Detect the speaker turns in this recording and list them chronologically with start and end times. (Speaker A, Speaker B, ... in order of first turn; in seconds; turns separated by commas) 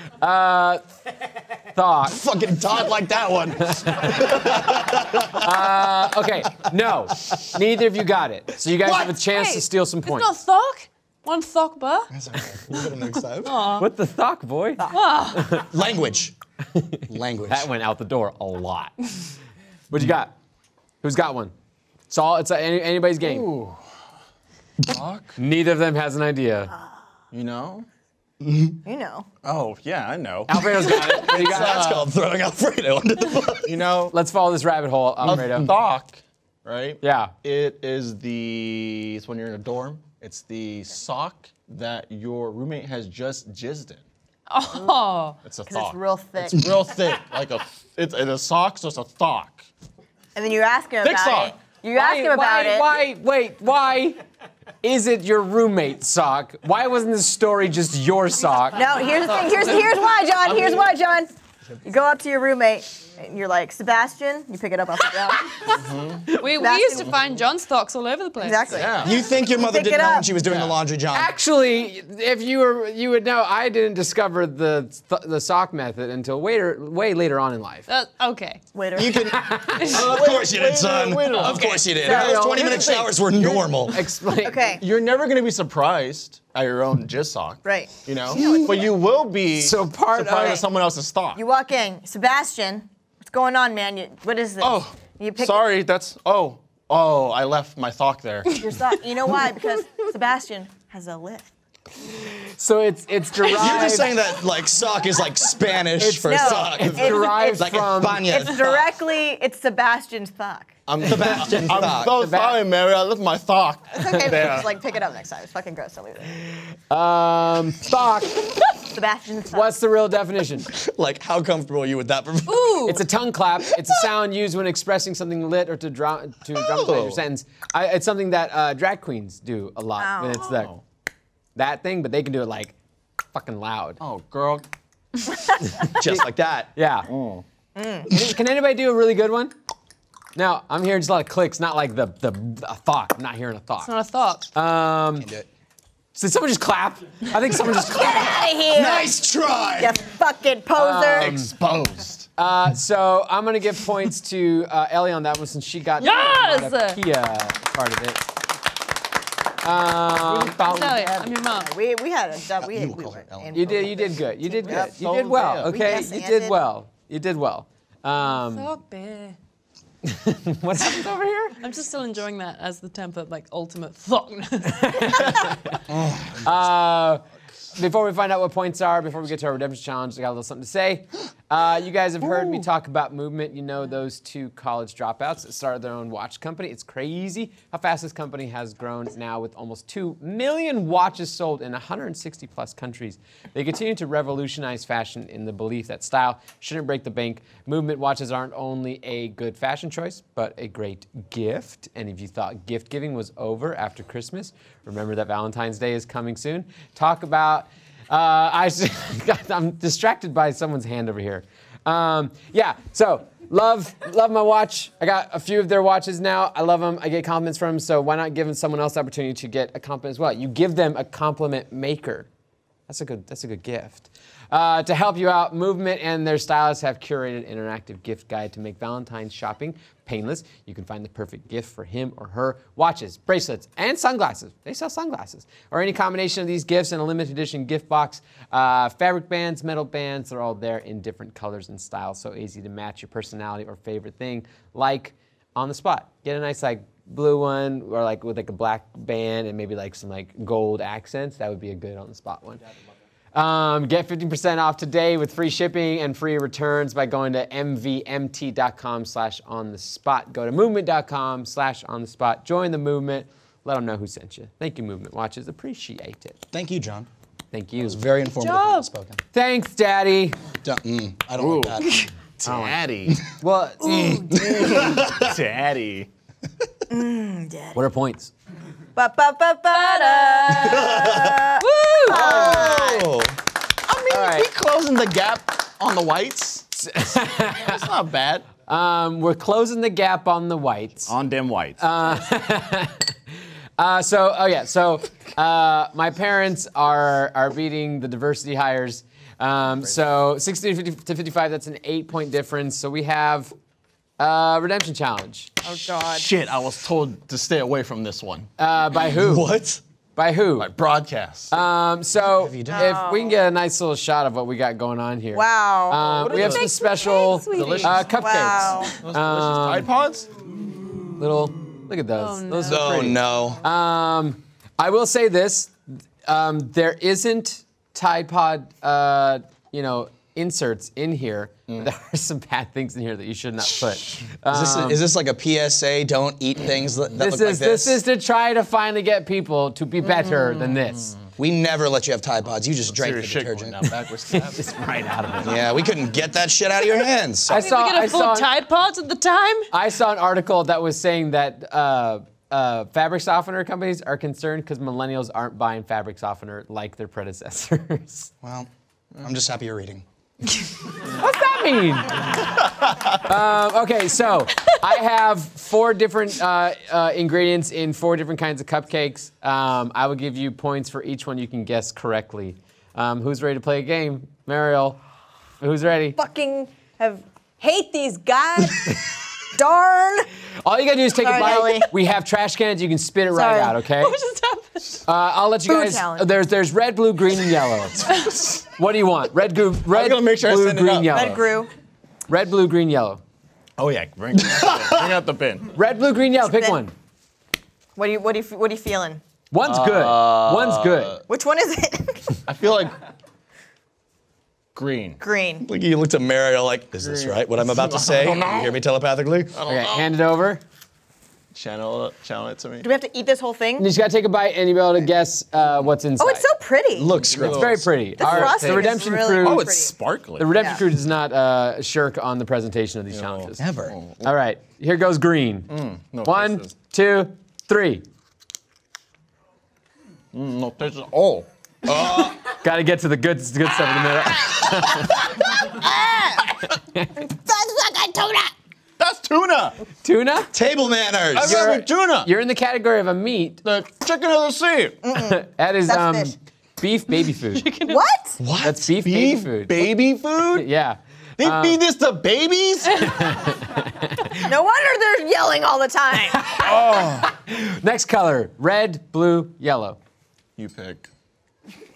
Speaker A: 0.2-0.9, Speaker A: 1.7-2.2, Speaker B: 2.1-5.9, Speaker A: 3.7-4.3, Speaker A: 5.3-10.3, Speaker B: 8.8-9.1, Speaker C: 8.9-12.1, Speaker B: 12.1-13.7, Speaker C: 13.4-13.9, Speaker A: 13.8-15.7, Speaker C: 14.9-15.5, Speaker B: 15.7-16.3, Speaker A: 16.8-18.9, Speaker B: 17.1-17.7, Speaker A: 19.9-20.3, Speaker A: 21.0-21.5, Speaker A: 22.1-23.5, Speaker D: 23.2-23.8, Speaker D: 24.8-25.4, Speaker A: 25.4-26.7, Speaker D: 27.3-27.9, Speaker B: 28.4-28.8, Speaker E: 28.8-29.3, Speaker D: 29.4-32.1, Speaker A: 30.5-32.0, Speaker B: 31.0-33.8, Speaker D: 33.6-34.1, Speaker A: 34.1-35.7, Speaker D: 35.2-44.0, Speaker A: 37.0-37.3, Speaker C: 44.5-45.4, Speaker D: 45.5-49.6, Speaker E: 45.7-46.7, Speaker E: 50.4-52.9, Speaker D: 51.0-51.5, Speaker A: 51.9-54.2, Speaker A: 54.8-59.1, Speaker E: 58.8-61.3, Speaker D: 60.5-60.8, Speaker E: 61.9-65.8, Speaker D: 65.7-66.4, Speaker C: 66.3-68.8, Speaker E: 66.5-67.2, Speaker E: 68.4-70.4, Speaker D: 68.7-69.2, Speaker B: 68.9-71.3, Speaker D: 70.4-70.8, Speaker A: 71.1-77.9, Speaker C: 77.9-78.6, Speaker E: 78.8-79.3, Speaker B: 79.0-84.0, Speaker A: 79.3-80.0, Speaker D: 79.9-83.8, Speaker A: 82.0-83.1, Speaker E: 82.0-83.0, Speaker A: 83.8-84.7, Speaker E: 84.4-84.8, Speaker D: 84.8-91.4, Speaker E: 87.6-89.0, Speaker A: 89.6-90.6, Speaker E: 90.4-90.7, Speaker E: 91.3-95.7, Speaker D: 94.6-98.7, Speaker E: 98.6-101.5, Speaker A: 102.1-104.2, Speaker B: 103.5-108.8, Speaker A: 106.0-108.4, Speaker E: 106.2-110.8, Speaker D: 110.9-114.7, Speaker B: 111.0-112.2, Speaker A: 111.9-112.6, Speaker E: 113.9-116.4, Speaker A: 116.9-118.5, Speaker E: 118.9-119.7, Speaker A: 119.5-120.7, Speaker B: 120.7-122.9, Speaker C: 122.5-123.0, Speaker A: 122.9-130.7, Speaker B: 126.8-127.2, Speaker E: 130.0-130.5, Speaker D: 130.4-130.8, Speaker A: 131.6-132.8, Speaker A: 133.3-134.0, Speaker D: 134.0-134.6, Speaker A: 135.6-137.1, Speaker B: 135.9-136.7, Speaker D: 137.1-137.4, Speaker E: 137.8-138.1, Speaker A: 138.1-139.5, Speaker A: 140.4-143.9, Speaker C: 143.8-144.5, Speaker A: 144.5-145.3, Speaker B: 145.2-145.5, Speaker A: 146.2-148.5, Speaker E: 147.8-149.1, Speaker B: 148.7-150.0, Speaker E: 149.8-151.4, Speaker A: 150.7-151.5, Speaker D: 151.2-152.3, Speaker A: 152.4-158.2, Speaker C: 156.0-157.0, Speaker A: 159.6-161.2, Speaker C: 160.5-161.7, Speaker E: 161.2-164.9, Speaker B: 162.6-163.6, Speaker A: 163.5-168.7, Speaker D: 164.7-165.8, Speaker E: 165.7-166.6, Speaker C: 168.3-169.4, Speaker A: 170.0-171.6, Speaker C: 171.6-175.6, Speaker A: 174.8-175.8, Speaker B: 175.9-176.4, Speaker A: 176.4-177.2, Speaker A: 177.7-222.3, Speaker A: 222.9-252.6, Speaker A: 253.3-266.4, Speaker B: 266.5-267.1, Speaker A: 267.5-268.0, Speaker B: 267.8-269.2, Speaker C: 268.4-268.9, Speaker A: 269.3-270.4, Speaker B: 270.6-273.2, Speaker D: 271.4-271.9, Speaker D: 272.4-273.2, Speaker A: 273.3-274.2, Speaker B: 273.8-275.3, Speaker C: 273.8-274.8, Speaker D: 274.4-276.1, Speaker E: 276.9-277.8, Speaker A: 277.8-278.3, Speaker E: 279.0-283.1, Speaker C: 279.7-281.0, Speaker B: 280.5-281.5, Speaker C: 281.6-282.7, Speaker B: 282.1-283.4, Speaker D: 283.9-286.7, Speaker A: 284.1-284.5, Speaker A: 286.8-287.8, Speaker D: 287.4-288.5, Speaker A: 288.7-291.1, Speaker D: 291.1-291.8, Speaker A: 291.8-293.1, Speaker A: 293.8-303.5, Speaker A: 304.2-305.5, Speaker E: 305.6-306.3, Speaker D: 306.0-308.5, Speaker A: 308.6-309.5, Speaker B: 309.0-309.8, Speaker A: 310.2-310.7, Speaker D: 310.6-311.5, Speaker A: 311.5-319.9, Speaker B: 312.4-313.0, Speaker E: 312.7-313.4, Speaker E: 315.3-316.2, Speaker D: 316.1-316.7, Speaker C: 316.3-318.1, Speaker D: 317.5-318.1, Speaker E: 318.1-318.9, Speaker D: 319.0-320.3, Speaker A: 321.2-325.7, Speaker C: 322.2-323.1, Speaker B: 322.7-323.6, Speaker A: 326.3-335.0, Speaker B: 334.5-338.0, Speaker A: 337.2-341.1, Speaker C: 340.3-340.6, Speaker D: 340.9-341.2, Speaker B: 341.4-343.8, Speaker D: 342.9-344.7, Speaker A: 344.4-345.6, Speaker B: 345.4-347.6, Speaker A: 347.5-348.5, Speaker C: 347.5-349.7, Speaker A: 349.7-358.3, Speaker B: 358.4-360.1, Speaker A: 361.0-375.0, Speaker A: 375.6-376.2, Speaker E: 376.2-379.0, Speaker E: 379.5-380.3, Speaker A: 380.6-384.2, Speaker E: 381.2-381.9, Speaker E: 383.4-383.7, Speaker C: 383.4-385.0, Speaker A: 385.1-388.1, Speaker E: 385.7-386.3, Speaker D: 388.1-388.6, Speaker A: 388.8-391.5, Speaker D: 389.9-391.3, Speaker E: 391.1-391.7, Speaker A: 392.3-393.2, Speaker D: 393.8-395.8, Speaker B: 394.5-395.0, Speaker A: 395.7-396.9, Speaker E: 396.4-396.8, Speaker E: 398.0-399.2, Speaker A: 399.5-401.2, Speaker D: 399.6-401.2, Speaker E: 401.3-402.4, Speaker D: 402.5-403.0, Speaker D: 404.8-405.2, Speaker E: 405.2-405.7, Speaker B: 405.6-409.5, Speaker D: 407.0-408.8, Speaker D: 409.5-410.1, Speaker A: 409.7-410.6, Speaker D: 411.5-412.9, Speaker E: 412.8-413.9, Speaker A: 413.8-416.5, Speaker E: 416.2-417.2, Speaker B: 416.9-417.9, Speaker D: 417.2-420.6, Speaker A: 417.4-419.8, Speaker E: 418.2-420.0, Speaker A: 420.4-423.6, Speaker E: 420.6-420.8, Speaker D: 423.1-424.3, Speaker B: 423.6-423.9, Speaker A: 424.2-428.0, Speaker D: 425.7-426.7, Speaker D: 430.3-431.5, Speaker B: 431.8-432.4, Speaker A: 432.4-435.5, Speaker E: 435.1-436.5, Speaker A: 436.8-437.1, Speaker E: 437.1-438.5, Speaker D: 439.0-439.8, Speaker A: 440.0-440.5, Speaker B: 440.5-441.8, Speaker D: 441.3-442.3, Speaker A: 441.4-443.6, Speaker D: 443.6-445.0, Speaker E: 445.0-446.3, Speaker A: 445.1-447.7, Speaker C: 447.5-448.1, Speaker E: 447.9-448.4, Speaker B: 448.4-448.9, Speaker A: 448.6-450.0, Speaker D: 448.9-450.7, Speaker A: 450.5-451.8, Speaker D: 451.4-453.3, Speaker A: 453.0-454.5, Speaker E: 454.4-456.5, Speaker A: 456.3-460.0, Speaker D: 456.6-457.3, Speaker D: 460.6-461.1